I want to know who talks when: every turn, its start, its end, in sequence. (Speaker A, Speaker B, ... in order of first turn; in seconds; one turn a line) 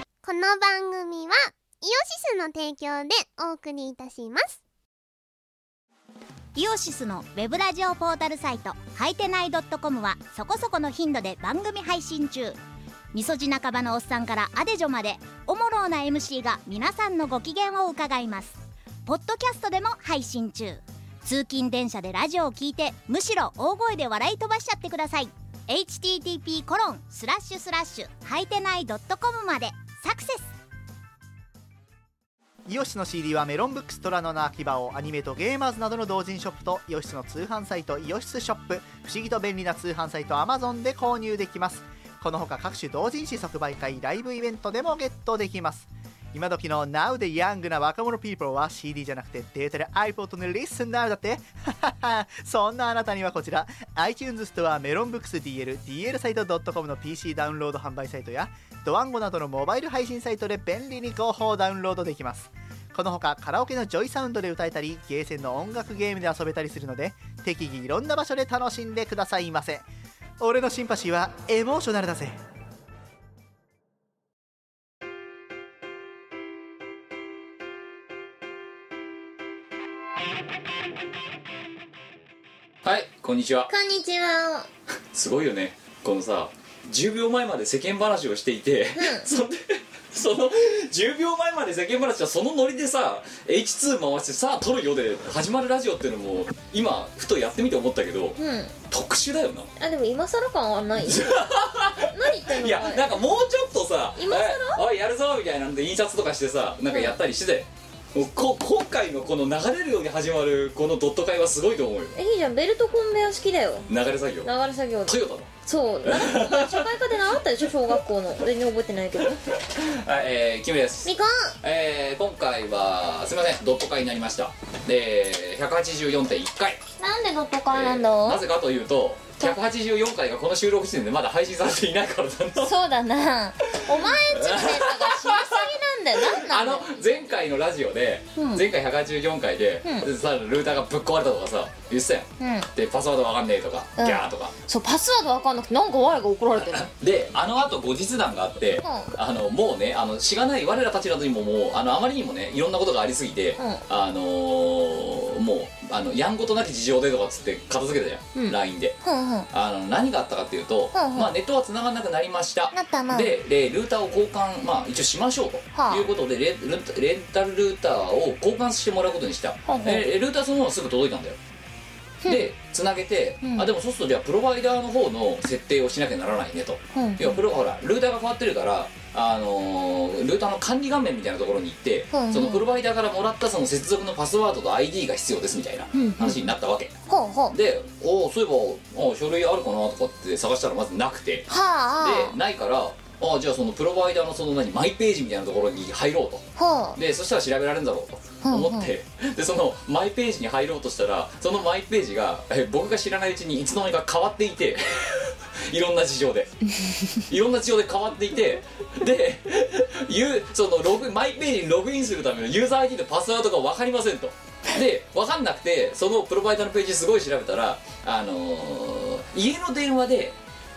Speaker A: 0.2-4.6
Speaker B: 6.5-12.6
Speaker B: 13.1-30.5
Speaker C: 32.7-69.9
Speaker C: 70.4-72.4
Speaker D: 82.8-83.7
Speaker E: 83.7-84.7
Speaker D: 85.1-98.4
Speaker E: 89.0-89.3
Speaker E: 98.4-98.8
Speaker D: 98.9-99.7
Speaker E: 99.8-103.2
Speaker D: 101.0-112.2
Speaker E: 104.2-104.8
Speaker E: 112.2-113.9
Speaker D: 113.9-114.5
Speaker E: 114.4-119.4
Speaker D: 115.1-115.5
Speaker D: 116.0-116.9
Speaker D: 119.7-121.1
Speaker E: 121.0-121.6
Speaker D: 121.6-126.8
Speaker E: 127.0-128.4
Speaker D: 127.7-132.7
Speaker E: 132.6-136.9
Speaker D: 133.7-144.5
Speaker E: 138.4-138.6
Speaker E: 142.4-142.7
Speaker E: 144.0-146.9
Speaker D: 146.6-159.0
Speaker E: 148.8-149.1
Speaker E: 153.6-153.8
Speaker E: 158.3-159.5
Speaker D: 159.5-171.4
Speaker E: 160.9-161.3
Speaker E: 162.7-163.3
Speaker E: 165.7-166.1
Speaker E: 169.7-170.1
Speaker D: 172.3-186.9
Speaker E: 173.4-173.7
Speaker E: 176.9-177.4
Speaker E: 182.1-182.6
Speaker E: 185.9-186.5
Speaker E: 187.1-187.6
Speaker D: 187.5-191.5
Speaker E: 191.5-192.4
Speaker D: 192.0-206.5
Speaker E: 196.6-197.0
Speaker E: 198.4-198.9
Speaker E: 206.8-207.2
Speaker D: 207.3-220.4